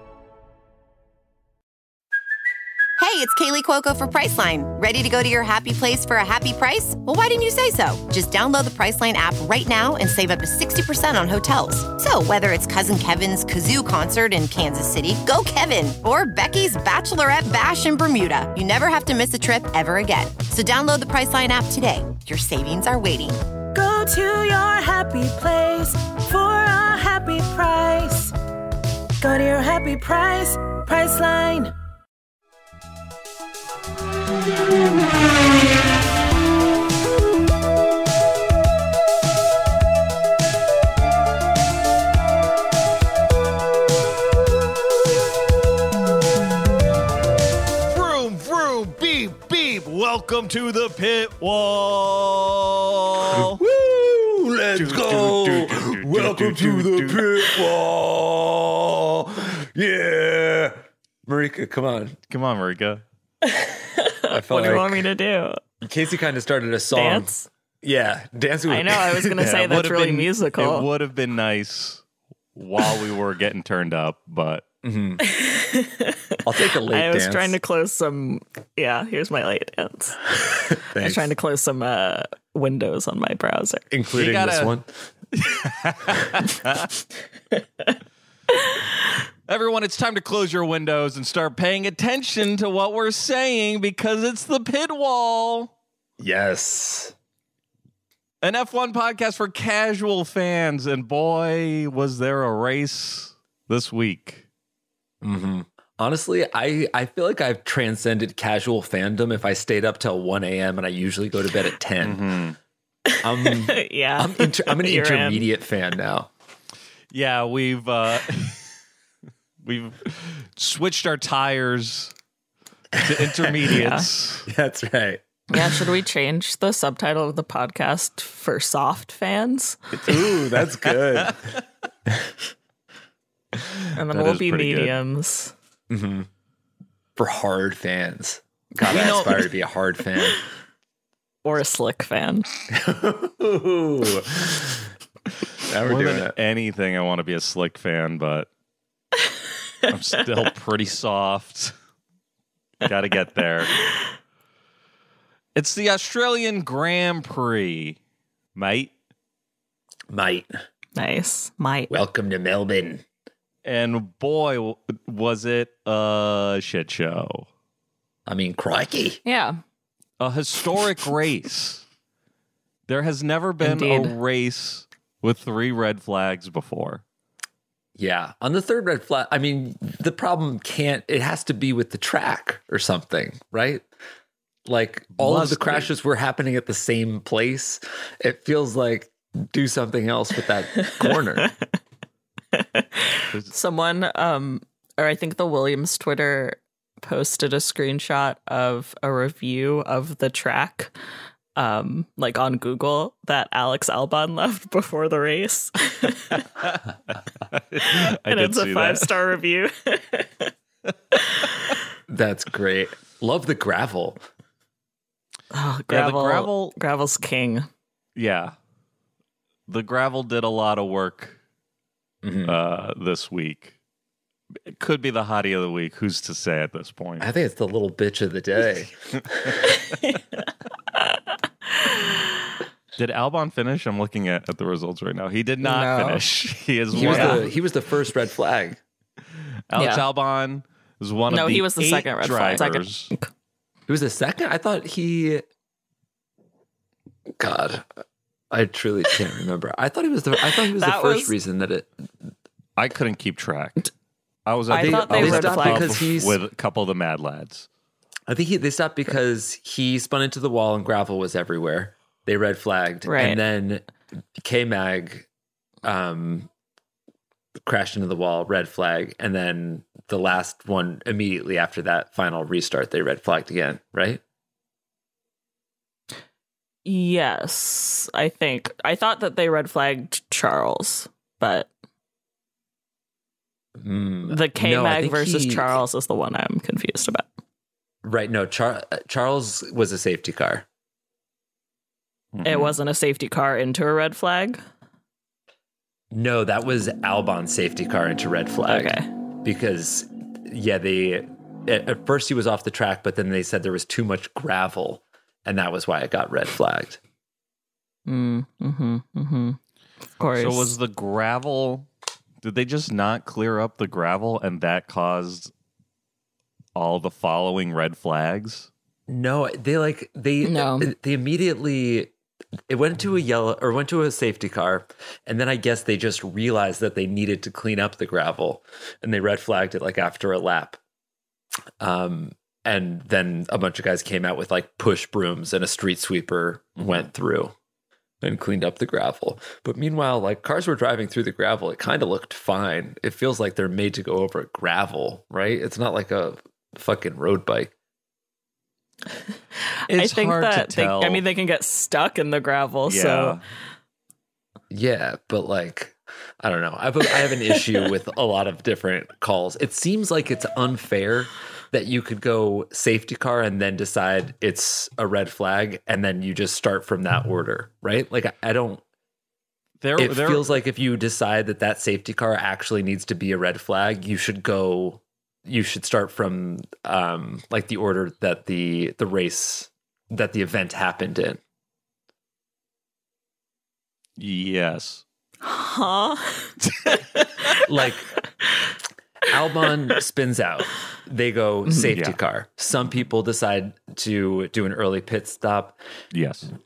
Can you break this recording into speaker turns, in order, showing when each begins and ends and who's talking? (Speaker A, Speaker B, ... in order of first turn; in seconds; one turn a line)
Speaker A: 3.0-23.4
Speaker B: 23.7-28.3
Speaker B: 29.2-31.7
Speaker C: 47.9-53.6
Speaker D: 53.3-62.2
Speaker C: 54.7-57.6
Speaker C: 62.3-63.0
Speaker E: 63.5-65.6
Speaker D: 64.3-65.0
Speaker D: 65.8-69.4
Speaker E: 66.9-67.5
Speaker E: 68.7-70.9
Speaker C: 69.4-72.0
Speaker C: 72.5-74.7
Speaker D: 74.8-75.2
Speaker E: 75.2-83.9
Speaker D: 76.4-77.5
Speaker D: 80.7-81.3
Speaker D: 83.9-84.9
Speaker C: 84.1-84.7
Speaker C: 85.3-86.9
Speaker E: 87.5-87.8
Speaker E: 88.5-88.8
Speaker C: 89.5-95.7
Speaker D: 96.2-97.1
Speaker C: 98.4-104.4
Speaker D: 105.2-112.2
Speaker C: 112.0-112.6
Speaker E: 113.1-115.4
Speaker D: 113.2-116.3
Speaker C: 117.1-118.7
Speaker C: 119.6-122.1
Speaker D: 122.9-123.6
Speaker C: 123.0-124.5
Speaker E: 123.8-124.0
Speaker D: 124.5-125.6
Speaker E: 125.5-130.1
Speaker D: 130.1-131.5
Speaker D: 132.1-132.3
Speaker E: 133.9-135.5
Speaker C: 134.1-134.9
Speaker D: 135.9-136.3
Speaker D: 137.2-140.4
Speaker C: 138.8-139.4
Speaker E: 141.4-142.5
Speaker D: 142.7-144.9
Speaker D: 145.6-146.3
Speaker C: 145.8-148.5
Speaker C: 149.9-151.7
Speaker C: 152.8-153.7
Speaker C: 155.6-158.0
Speaker C: 158.5-158.9
Speaker D: 160.1-160.5
Speaker E: 160.9-161.9
Speaker D: 161.9-163.0
Speaker C: 163.6-167.5
Speaker D: 168.3-169.2
Speaker E: 169.2-169.6
Speaker C: 170.2-171.8
Speaker C: 172.9-177.0
Speaker E: 173.6-174.1
Speaker D: 177.9-183.9
Speaker D: 184.7-191.5
Speaker C: 185.2-185.9
Speaker E: 192.5-200.9
Speaker E: 201.6-206.4
Speaker C: 207.5-209.1
Speaker E: 207.8-210.5
Speaker E: 211.2-211.7
Speaker D: 212.1-214.2
Speaker E: 215.5-217.7
Speaker C: 215.9-216.8
Speaker C: 218.2-218.5
Speaker C: 219.7-221.4
Speaker D: 222.2-222.6
Speaker C: 222.4-223.7
Speaker C: 224.7-227.3
Speaker D: 227.2-229.8
Speaker E: 229.8-230.2
Speaker E: 230.9-232.5
Speaker C: 233.0-237.5
Speaker E: 235.6-236.3
Speaker D: 236.9-238.8
Speaker E: 237.0-237.4
Speaker C: 239.7-243.1
Speaker E: 239.8-240.0
Speaker E: 241.3-243.3
Speaker D: 243.9-245.4
Speaker D: 247.4-251.9
Speaker E: 250.8-251.3
Speaker C: 252.8-253.8
Speaker C: 254.4-257.7
Speaker E: 254.7-256.0
Speaker D: 254.7-256.4
Speaker D: 258.3-263.9
Speaker E: 263.1-263.4
Speaker D: 264.4-265.2
Speaker D: 265.8-266.5
Speaker D: 267.6-274.2
Speaker E: 276.8-281.7
Speaker D: 283.8-285.8
Speaker E: 284.3-287.3
Speaker D: 288.0-290.6
Speaker C: 292.3-292.8
Speaker E: 292.4-294.6
Speaker D: 296.1-307.0
Speaker E: 298.6-299.1
Speaker E: 308.1-309.6
Speaker E: 310.2-310.7
Speaker C: 310.4-311.9
Speaker C: 312.4-315.5
Speaker C: 316.8-318.7
Speaker D: 319.1-322.1
Speaker E: 320.4-320.9
Speaker D: 322.7-330.8
Speaker D: 331.8-337.5
Speaker D: 338.2-347.7
Speaker C: 349.9-351.2
Speaker E: 349.9-353.4
Speaker C: 352.9-353.4
Speaker D: 354.7-368.8
Speaker C: 369.8-370.5
Speaker D: 370.0-381.4
Speaker C: 384.2-385.0
Speaker E: 385.4-387.6
Speaker D: 387.6-388.1
Speaker D: 389.3-395.8
Speaker C: 391.9-392.2
Speaker C: 396.1-396.5